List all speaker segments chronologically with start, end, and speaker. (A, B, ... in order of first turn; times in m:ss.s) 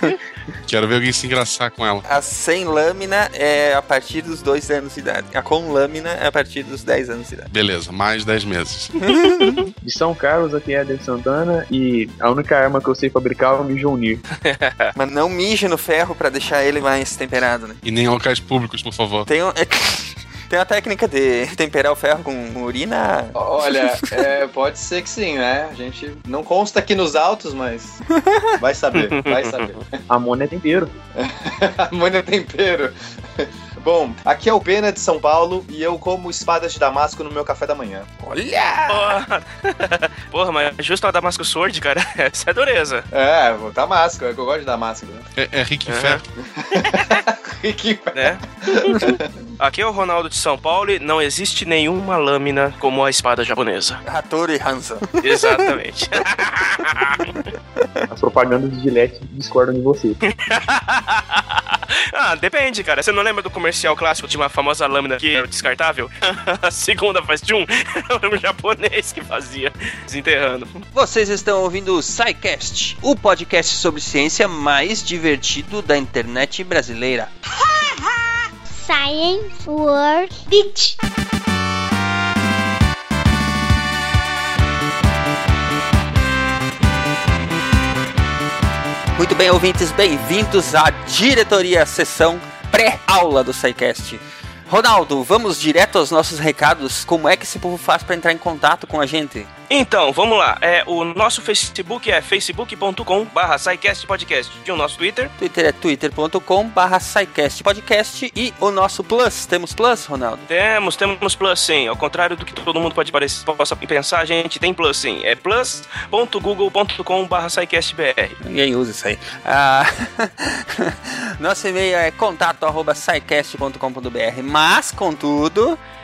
0:00.7-0:02.0 A
0:02.1-0:07.5 B
0:07.5-0:08.9 A
0:09.0-0:09.5 B
0:09.8-0:14.2 C
0:14.4-0:14.9 D
0:14.9-0:17.8 B
0:17.8-0:19.3 A
0:19.3-0:24.3 B
0:23.4-0:28.0 E
0:28.1-0:28.5 B
0:28.6-0:29.8 E
0:28.9-0:29.6 D
0:30.1-0:30.9 C
0:31.2-0:38.1 E
0:38.2-0:39.2 B
0:38.9-0:43.1 D
0:43.1-0:45.2 E
0:45.4-0:46.2 A
0:45.9-0:46.2 D
0:46.5-0:49.3 E
0:48.2-0:48.9 D
0:49.6-0:54.0 D
0:54.0-0:55.7 B
0:55.2-0:57.3 D
0:58.1-1:00.2 C
1:00.3-1:10.8 D
1:10.9-1:17.3 F
1:17.7-1:20.9 G
1:29.1-1:39.5 B
1:39.7-1:45.3 D
1:45.4-1:50.4 B
1:50.5-1:58.4 D
1:58.4-2:05.8 B